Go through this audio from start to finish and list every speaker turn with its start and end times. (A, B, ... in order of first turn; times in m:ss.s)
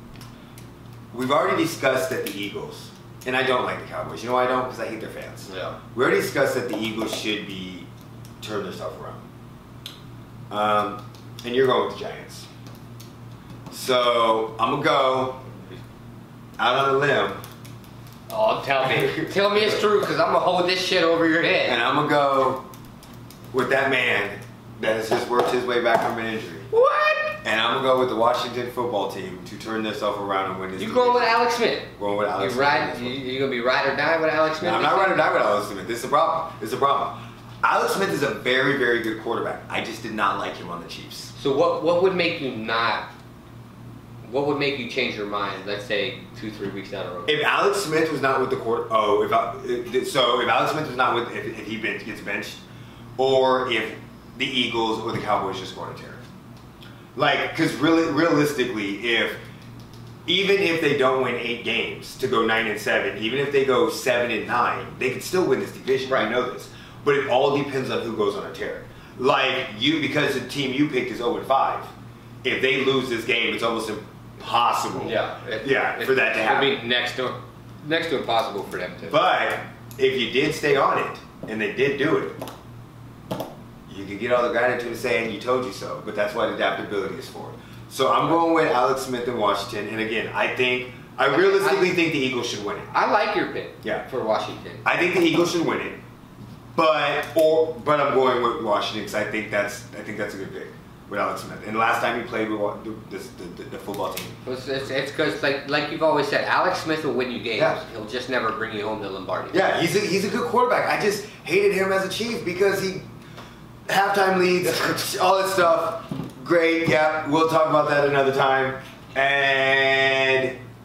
0:01.1-0:07.9 A
0:05.5-0:05.8 B
0:08.4-0:09.2 A
0:10.5-0:12.5 A
0:13.7-0:15.4 A
0:16.6-0:17.4 A
0:18.3-0:21.8 B
0:19.0-0:19.7 A
0:21.6-0:22.6 A
0:23.5-0:26.7 A
0:26.7-0:27.4 B
0:27.4-0:33.2 A
0:30.8-0:35.3 B
0:34.6-0:41.3 A
0:41.4-0:43.1 B
0:44.2-0:47.4 B
0:47.3-0:52.6 A
0:53.2-0:56.2 A
0:57.1-0:59.4 A
1:00.2-1:11.9 A
1:12.4-1:16.8 A
1:15.0-1:19.2 B
1:19.0-1:22.4 A
1:23.9-1:32.9 A
1:31.3-1:32.0 B
1:32.9-1:34.8 B
1:34.8-1:36.0 A
1:36.8-1:44.4 A
1:44.4-1:49.6 B
1:49.5-1:53.0 A
1:53.9-2:00.6 A